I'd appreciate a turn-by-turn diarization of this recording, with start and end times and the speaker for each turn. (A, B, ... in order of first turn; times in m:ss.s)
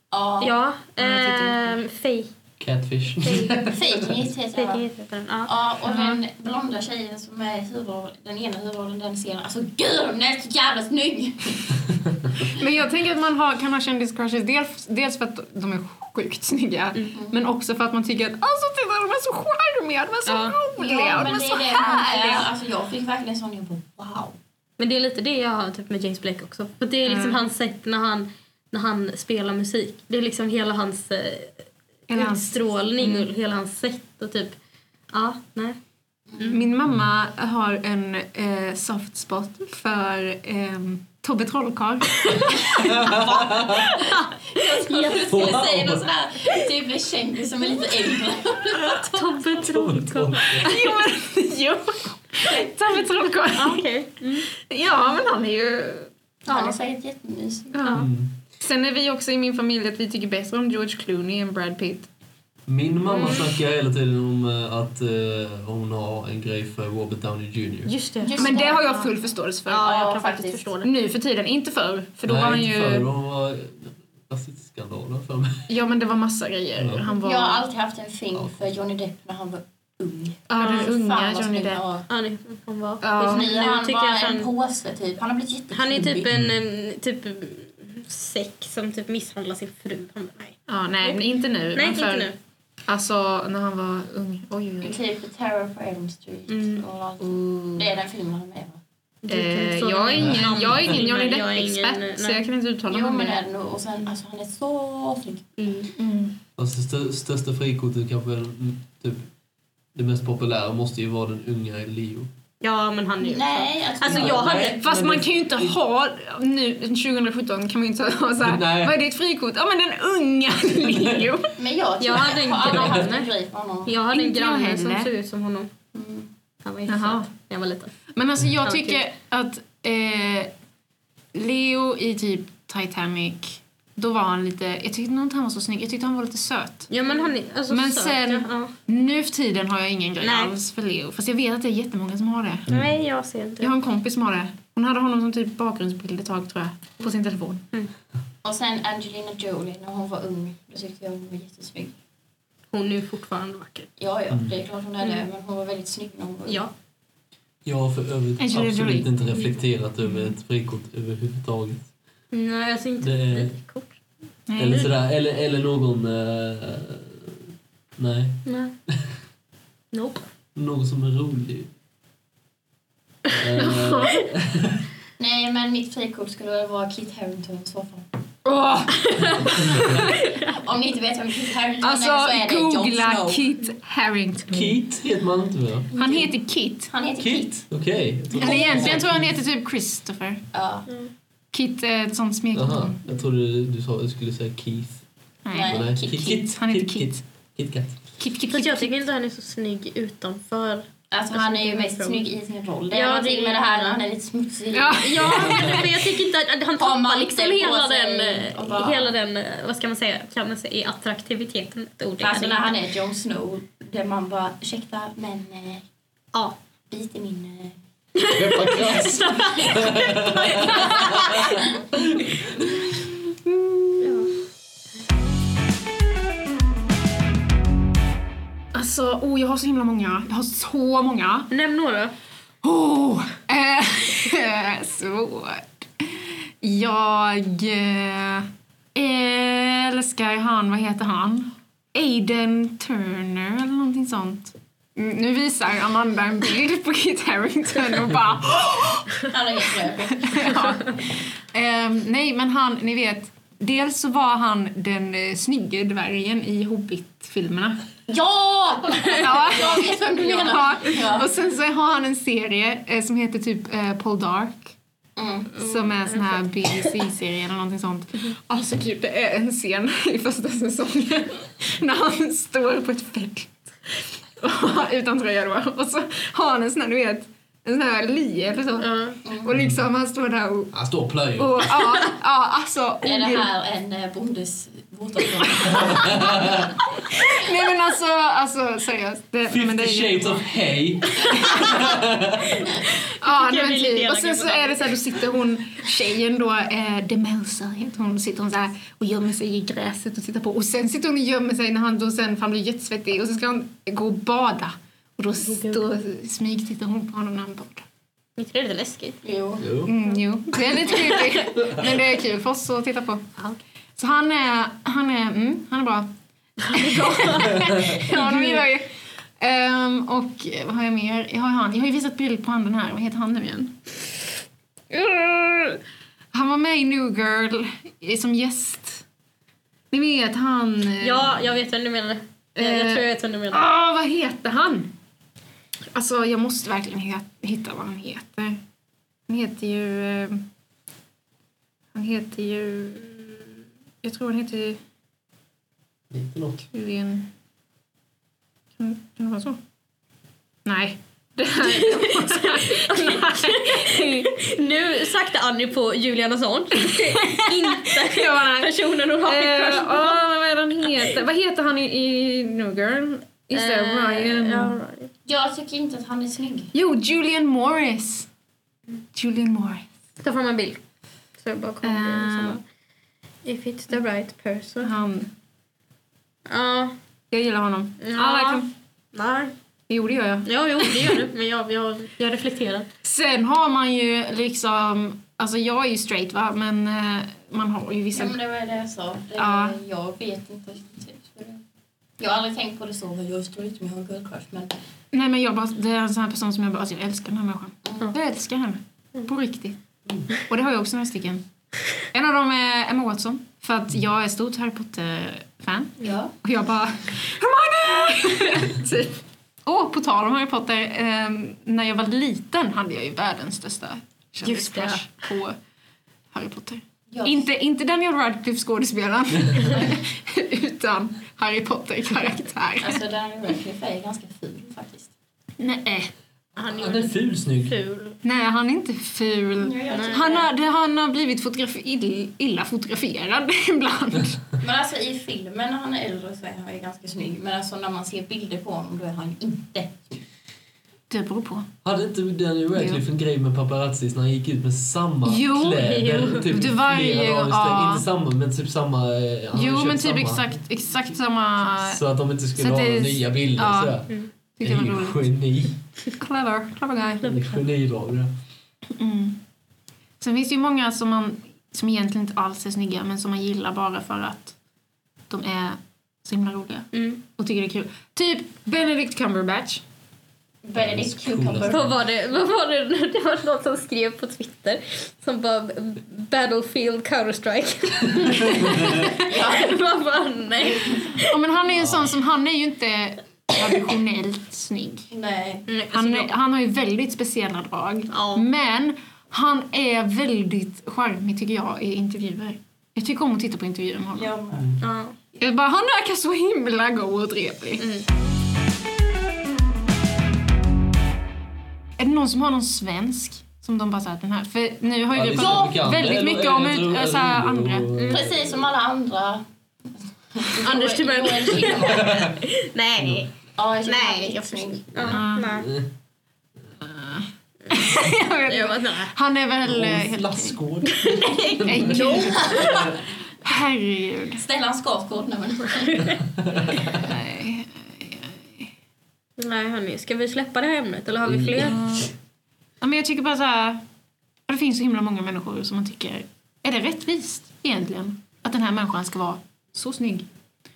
0:00.1-0:00.5 A
0:00.4-0:02.3 B
0:01.0-0:01.7 C
0:02.6-0:04.2 D
0:03.2-0:03.8 B
0:03.7-0:04.8 A
0:04.5-0:05.5 B
0:05.5-0:12.5 A
0:05.8-0:06.2 C
0:12.5-0:22.5 C
0:20.2-0:20.6 B
0:20.8-0:24.4 A
0:24.8-0:34.5 B
0:27.0-0:27.4 C
0:32.1-0:33.3 C
0:35.1-0:35.8 B
0:36.3-0:36.6 B
0:36.5-0:43.2 C
0:42.8-0:43.9 D
0:42.8-0:43.9 A
0:43.7-0:44.0 C
0:44.1-0:45.5 B
0:44.6-0:49.2 A
0:45.2-0:46.0 D
0:48.8-0:50.9 B
0:49.6-0:50.7 D
0:50.6-0:53.9 C
0:53.6-0:54.5 B
0:54.5-0:56.1 C
0:56.4-0:56.8 B
0:56.5-0:57.8 A
0:57.7-0:58.1 C
0:57.8-0:58.1 B
0:57.9-0:58.3 D
0:58.6-1:02.1 C
1:02.7-1:07.9 D
1:03.0-1:03.5 B
1:07.8-1:09.1 B
1:08.2-1:08.9 A
1:08.2-1:10.1 C
1:09.7-1:10.9 B
1:09.7-1:10.6 A
1:10.8-1:13.1 C
1:12.2-1:15.7 D
1:15.7-1:17.6 C
1:16.8-1:17.0 D
1:17.1-1:22.1 A
1:20.5-1:21.8 C
1:20.6-1:20.9 B
1:22.1-1:24.5 B
1:23.0-1:23.5 C
1:23.2-1:26.3 A
1:25.7-1:31.2 B
1:30.7-1:32.3 C
1:31.7-1:32.4 B
1:32.9-1:35.0 C
1:34.8-1:38.8 A
1:36.5-1:36.8 B
1:37.2-1:37.9 C
1:39.2-1:42.4 B
1:39.3-1:43.4 C
1:40.2-1:40.8 D
1:42.9-1:45.5 A
1:45.6-1:45.9 B
1:46.0-1:46.4 C
1:46.6-1:49.3 D
1:49.9-1:52.3 D
1:52.6-1:54.8 B
1:53.2-1:54.6 A
1:54.0-1:55.8 D
1:54.6-2:01.5 C
1:58.4-1:59.0 D
2:00.9-2:01.3 D
2:01.6-2:03.9 A
2:02.0-2:03.2 B
2:02.8-2:03.2 C
2:03.8-2:05.7 B
2:04.1-2:05.1 C
2:05.9-2:06.3 A
2:06.6-2:07.9 B
2:06.9-2:07.3 C
2:08.1-2:10.5 C
2:08.6-2:09.0 B
2:11.3-2:16.9 C
2:16.9-2:18.7 B
2:17.7-2:22.7 C
2:20.2-2:20.5 B
2:22.7-2:22.9 D
2:22.7-2:23.7 B
2:23.6-2:27.6 C
2:28.4-2:31.9 A
2:32.7-2:33.9 B
2:34.0-2:36.6 A
2:34.3-2:34.6 D
2:37.6-2:41.9 D
2:38.4-2:39.1 C
2:42.3-2:44.0 B
2:43.0-2:43.6 D
2:44.5-2:44.9 C
2:44.6-2:47.4 D
2:48.0-2:49.0 D
2:48.4-2:48.7 B
2:49.9-2:50.2 B
2:50.5-2:51.7 D
2:53.4-2:54.8 D
2:53.6-2:54.2 C
2:55.2-2:58.0 A
2:58.4-3:00.2 C
2:59.1-3:00.6 B
2:59.6-3:00.1 D
2:59.7-3:03.4 A
3:01.8-3:04.7 C
3:04.5-3:05.9 D
3:05.9-3:06.3 A
3:06.0-3:06.9 C
3:06.9-3:07.5 A
3:07.2-3:09.4 D
3:08.3-3:10.4 C
3:08.4-3:09.0 A
3:10.5-3:10.9 A
3:11.5-3:13.0 C
3:12.5-3:15.0 D
3:15.4-3:17.2 C
3:15.5-3:16.3 A
3:15.6-3:18.0 D
3:18.2-3:18.9 C
3:18.5-3:22.3 B
3:21.1-3:25.7 A
3:22.9-3:24.0 B
3:24.7-3:25.9 C
3:25.0-3:32.7 B
3:25.3-3:25.9 D
3:26.8-3:29.1 A
3:32.2-3:35.8 A
3:36.9-3:37.8 A
3:38.2-3:41.6 B
3:38.4-3:42.6 D
3:43.0-3:44.2 C
3:44.0-3:44.3 B
3:48.7-3:51.5 C
3:51.5-3:52.1 B
3:52.6-4:17.8 C
4:09.2-4:10.7 A
4:18.1-4:21.3 A
4:19.0-4:24.7 C
4:25.2-4:25.6 A
4:25.6-4:26.9 B
4:25.6-4:40.7 C
4:38.8-4:39.2 B
4:39.2-4:39.5 A
4:39.5-4:39.8 D
4:40.7-4:41.6 D
4:41.4-4:43.5 C
4:43.0-4:47.4 A
4:45.7-4:46.7 D
4:45.7-4:46.2 C
4:46.9-4:50.4 C
4:49.5-4:52.6 D
4:51.3-4:52.0 C
4:52.6-4:55.0 B
4:52.8-5:07.8 C
5:05.4-5:05.8 B
5:08.4-5:09.2 B
5:09.2-5:09.7 A
5:09.6-5:09.9 D
5:09.8-5:13.3 C
5:11.5-5:11.9 D
5:14.0-5:16.1 C
5:16.6-5:18.9 C
5:16.7-5:18.6 B
5:17.6-5:18.0 D
5:19.4-5:23.8 C
5:24.9-5:25.8 B
5:26.3-5:29.0 C
5:29.9-5:31.4 C
5:31.0-5:33.6 B
5:32.6-5:34.9 C
5:35.9-5:38.6 C
5:39.3-5:40.4 C
5:41.9-5:43.5 C
5:44.0-5:44.8 C
5:46.1-5:46.6 D
5:46.7-5:47.3 C
5:48.8-5:49.6 C
5:50.6-5:54.4 C
5:51.6-6:00.2 B
5:56.8-6:04.8 C
6:03.5-6:05.1 B
6:05.2-6:06.7 A
6:06.7-6:08.3 C
6:09.1-6:09.8 C
6:10.2-6:10.8 B
6:11.4-6:12.6 B
6:11.8-6:12.6 C
6:13.4-6:14.9 B
6:14.8-6:15.3 C
6:16.5-6:16.9 B
6:17.3-6:18.7 C
6:18.0-6:19.5 B
6:19.9-6:20.9 C
6:20.4-6:22.9 B
6:23.0-6:28.4 C
6:28.1-6:31.6 A
6:29.4-6:29.8 C
6:32.2-6:34.7 A
6:35.1-6:39.8 C
6:37.8-6:38.1 A
6:40.3-6:41.4 C
6:42.1-6:55.6 C
6:46.0-6:46.3 A
6:54.4-6:55.0 B
6:56.3-7:03.0 C
6:57.1-6:57.4 A
7:02.8-7:05.1 A
7:05.6-7:06.1 C
7:06.6-7:08.2 B
7:06.7-7:07.7 D
7:08.2-7:14.4 C
7:09.6-7:10.5 A
7:09.9-7:10.4 B
7:14.6-7:20.2 A
7:21.1-7:21.7 C
7:21.8-7:30.6 D
7:22.8-7:23.0 C
7:25.2-7:28.0 C
7:25.8-7:26.5 B
7:29.5-7:32.0 C
7:31.8-7:34.1 D
7:32.5-7:34.0 C
7:34.6-7:35.3 C
7:34.6-7:35.7 D
7:36.2-7:37.4 C
7:37.2-7:38.3 D
7:38.9-7:39.4 C
7:40.2-7:44.5 C
7:45.3-7:49.8 C
7:46.9-7:47.2 B
7:50.6-7:51.9 A
7:50.8-7:51.9 D
7:51.7-8:01.3 B
7:58.5-7:59.0 D
7:59.0-7:59.7 A
8:01.2-8:05.1 C
8:01.8-8:02.1 D
8:05.1-8:05.6 A
8:05.7-8:06.3 B
8:05.9-8:14.3 C
8:08.1-8:08.4 B
8:14.1-8:14.8 A
8:14.8-8:15.1 B
8:15.4-8:17.8 C
8:17.8-8:18.0 B
8:22.0-8:27.9 C
8:25.1-8:28.6 D
8:25.3-8:25.8 A
8:27.9-8:28.3 B
8:28.1-8:29.4 A
8:30.3-8:32.3 A
8:30.6-8:33.3 B
8:31.8-8:32.4 D
8:33.0-8:33.2 D
8:33.6-8:35.2 A
8:33.8-8:35.7 B
8:35.1-8:35.5 C
8:35.2-8:35.9 D
8:36.8-8:40.6 C
8:38.5-8:39.1 B
8:39.6-8:43.0 D
8:40.8-8:42.9 B
8:41.6-8:44.4 C
8:42.0-8:43.0 A
8:44.4-8:46.2 A
8:46.4-8:47.0 D
8:47.0-8:48.7 C
8:49.4-8:51.8 B
8:51.3-8:51.8 D
8:51.6-8:52.1 C
8:52.8-8:53.8 C
8:54.5-9:00.2 C